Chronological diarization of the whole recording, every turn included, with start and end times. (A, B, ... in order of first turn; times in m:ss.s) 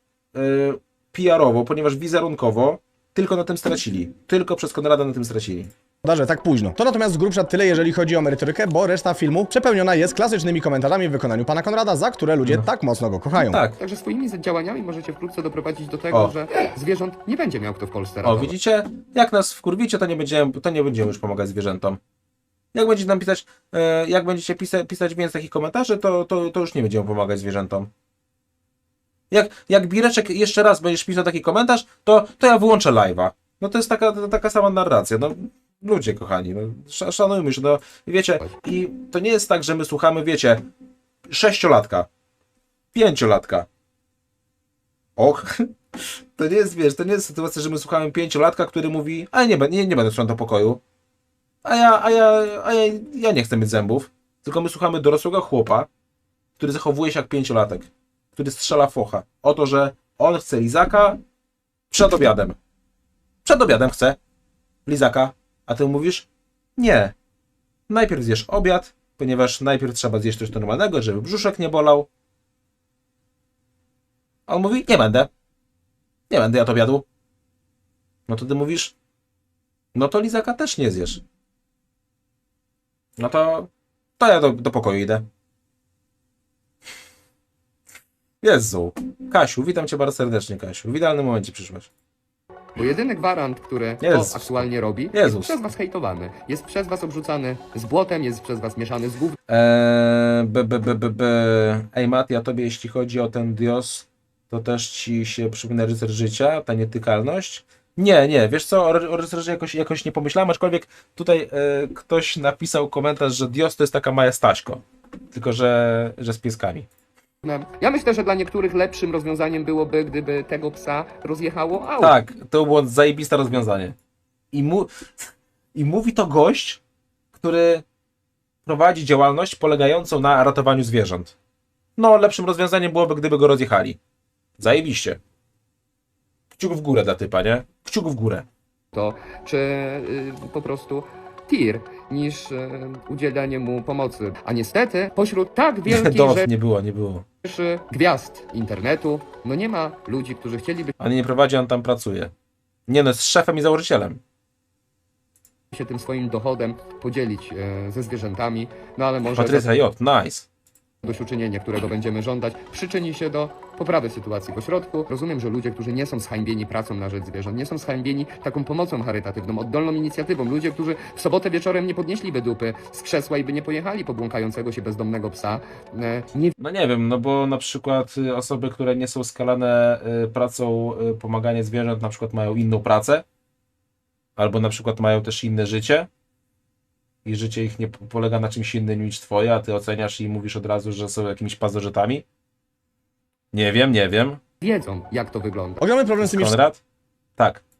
0:00.3-0:05.7 A
0:06.0-0:13.6 B
0:13.4-0:13.8 A
0:13.8-0:18.5 C
0:18.2-0:22.0 A
0:22.7-0:27.9 A
0:29.3-0:40.6 A
0:41.3-0:42.1 A
0:42.9-0:43.7 A
0:45.2-0:50.8 A
0:51.6-0:55.9 A
0:56.6-1:01.2 A
1:01.9-1:02.6 A
1:03.4-1:04.2 A
1:04.8-1:07.1 A
1:07.9-1:12.1 A
1:14.5-1:15.3 A
1:16.3-1:17.0 A
1:18.3-1:18.9 A
1:19.9-1:21.2 A
1:23.2-1:25.2 A
1:28.4-1:31.9 A
1:32.7-1:39.4 C
1:34.0-1:35.6 A
1:39.5-1:56.9 A
1:57.4-2:02.2 C
2:02.0-2:04.0 A
2:04.5-2:06.8 A
2:07.3-2:07.8 A
2:08.6-2:11.3 A
2:12.0-2:14.0 A
2:14.6-2:15.2 A
2:16.5-2:18.4 A
2:18.9-2:26.5 C
2:25.9-2:27.2 A
2:27.4-2:30.9 C
2:31.0-2:32.3 A
2:32.9-2:34.2 A
2:35.7-2:39.7 C
2:39.3-2:40.5 A
2:41.0-2:56.5 C
2:56.6-3:03.2 A
3:04.4-3:06.1 A
3:07.2-3:12.2 A
3:13.5-3:14.4 A
3:14.6-3:15.8 C
3:15.8-3:16.6 B
3:16.2-3:16.8 A
3:17.4-3:17.6 A